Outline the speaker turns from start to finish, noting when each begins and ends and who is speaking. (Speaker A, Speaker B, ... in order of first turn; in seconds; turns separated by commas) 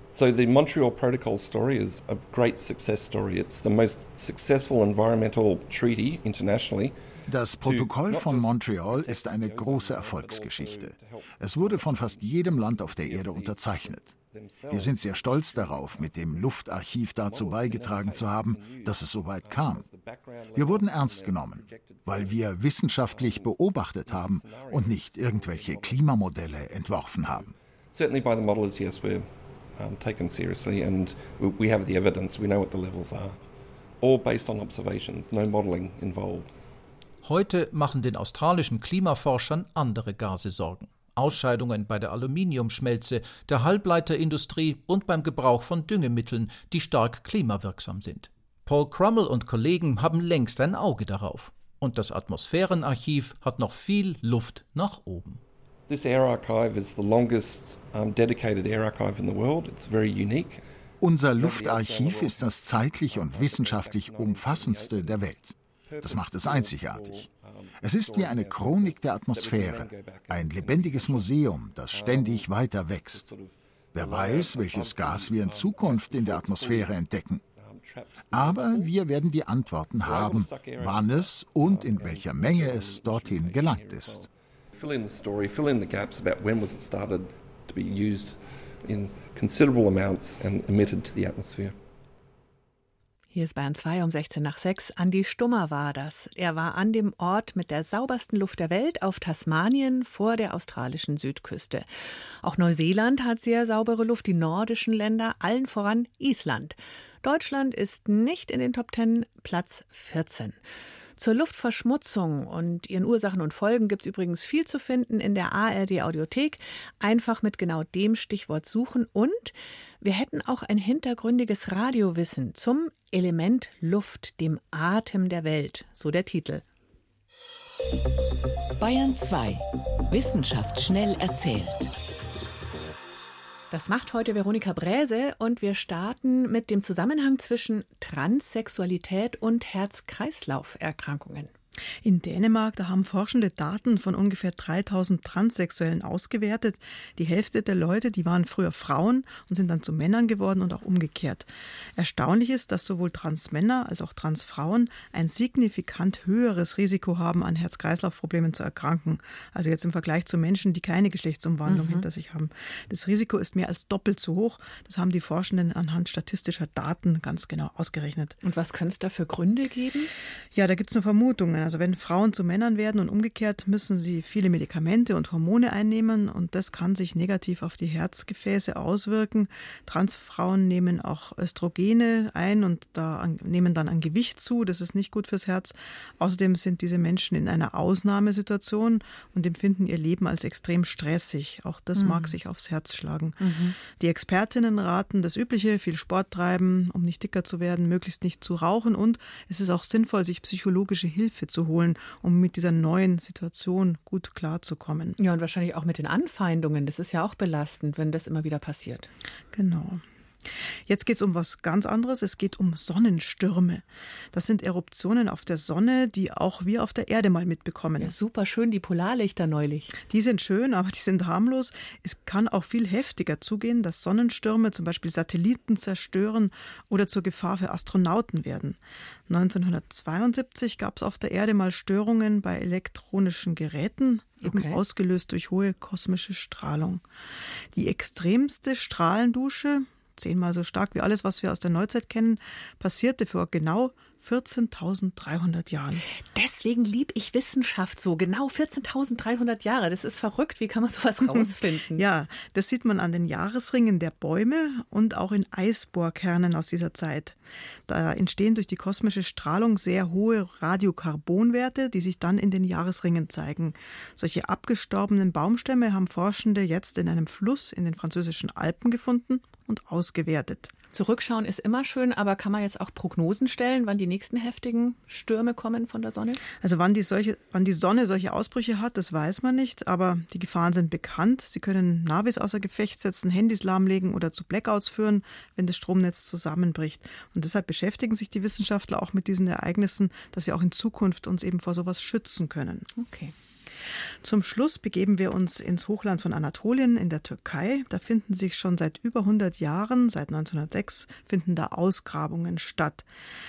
Speaker A: 0.1-7.0, Speaker B: 7.3-14.1, Speaker A: 7.6-16.7, Speaker B: 14.7-19.9, Speaker A: 17.2-22.5, Speaker B: 20.6-27.5, Speaker A: 23.1-26.2, Speaker A: 27.1-33.4, Speaker A: 34.0-36.5, Speaker C: 37.2-55.4, Speaker A: 55.9-60.6, Speaker B: 61.0-67.3, Speaker A: 61.4-71.4, Speaker B: 67.8-73.3, Speaker A: 71.9-77.0, Speaker B: 73.9-77.4, Speaker A: 77.6-79.0, Speaker B: 78.3-84.2, Speaker A: 80.0-91.8, Speaker D: 93.3-101.9, Speaker D: 102.4-110.6, Speaker D: 111.2-126.6, Speaker E: 128.8-129.6, Speaker E: 130.1-131.8, Speaker D: 133.7-141.5, Speaker F: 142.0-168.4, Speaker D: 161.7-162.1, Speaker D: 168.4-170.1, Speaker F: 170.5-205.2, Speaker D: 191.9-192.4, Speaker D: 193.4-193.8, Speaker D: 205.2-209.1, Speaker F: 209.5-210.0, Speaker F: 210.9-218.2, Speaker D: 218.0-220.0, Speaker F: 220.1-237.0, Speaker D: 234.4-234.8, Speaker F: 237.7-246.0, Speaker D: 246.3-252.1, Speaker F: 251.2-270.7, Speaker D: 270.9-276.4, Speaker F: 276.6-292.9, Speaker D: 293.0-293.3, Speaker F: 294.2-303.1